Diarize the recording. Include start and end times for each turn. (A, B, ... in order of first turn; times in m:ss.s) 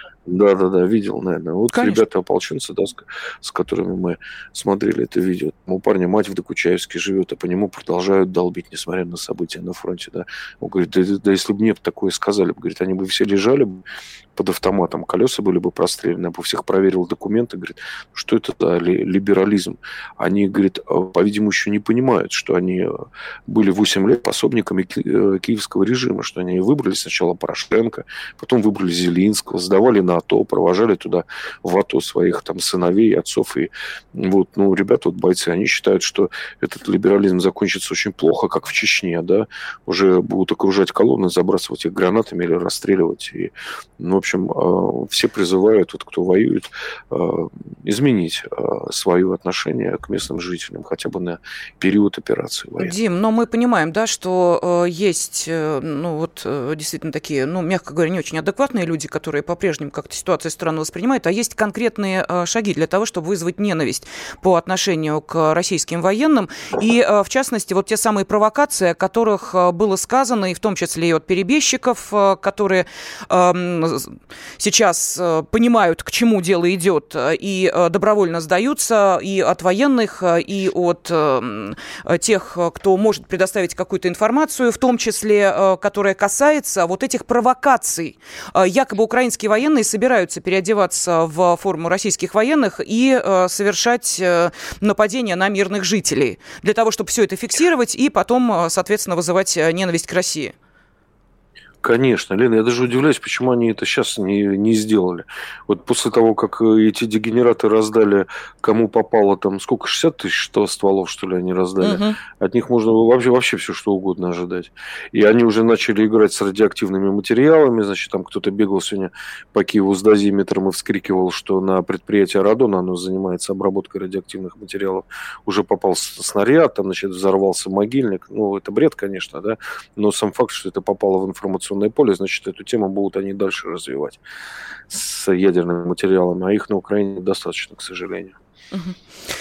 0:00.3-0:53.0 A
0:01.7-0:02.0 B
0:52.8-1:40.6 B
1:41.8-2:14.2 A
1:51.8-1:52.2 B
2:14.9-2:18.4 A
2:18.7-2:19.0 B